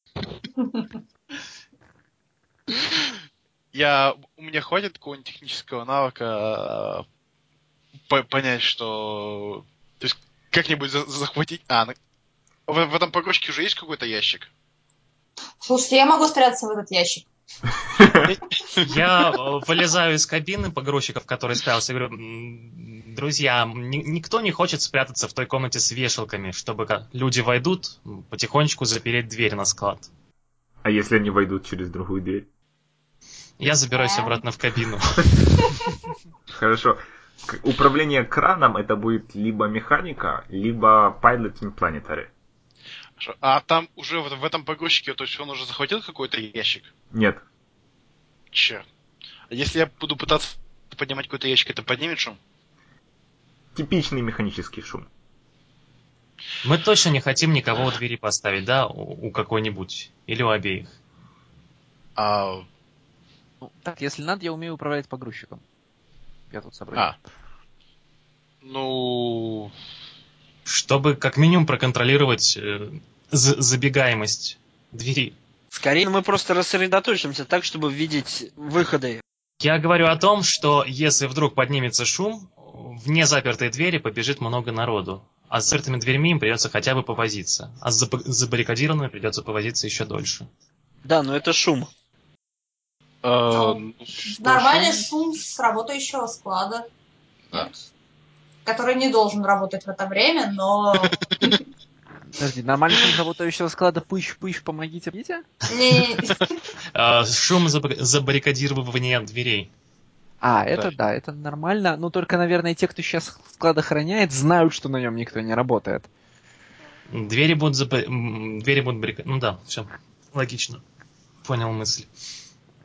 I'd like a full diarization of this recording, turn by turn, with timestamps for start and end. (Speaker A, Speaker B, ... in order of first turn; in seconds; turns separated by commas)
Speaker A: 0.6-0.8, Speaker B: 2.9-3.1, Speaker B: 3.7-7.0, Speaker B: 8.1-11.9, Speaker B: 12.7-14.5, Speaker A: 15.6-17.3, Speaker C: 18.0-18.2, Speaker B: 18.1-18.9, Speaker D: 18.8-30.1, Speaker C: 30.8-32.5, Speaker D: 33.6-35.2, Speaker A: 33.9-34.4, Speaker C: 36.5-42.3, Speaker B: 43.2-46.9, Speaker C: 47.1-47.4, Speaker B: 48.5-48.8, Speaker B: 49.5-52.4, Speaker C: 53.7-55.1, Speaker D: 56.6-60.9, Speaker B: 62.2-62.6, Speaker E: 63.6-65.6, Speaker E: 66.5-67.1, Speaker B: 68.6-69.7, Speaker D: 70.7-75.3, Speaker F: 75.7-79.2, Speaker D: 79.6-90.5, Speaker F: 91.0-91.9, Speaker B: 93.2-95.1, Speaker A: 93.5-96.8, Speaker A: 98.6-101.6, Speaker B: 101.0-101.4, Speaker E: 102.3-105.5, Speaker A: 105.7-106.5, Speaker D: 106.9-109.7, Speaker E: 110.4-116.1, Speaker D: 117.1-120.8, Speaker D: 121.4-122.1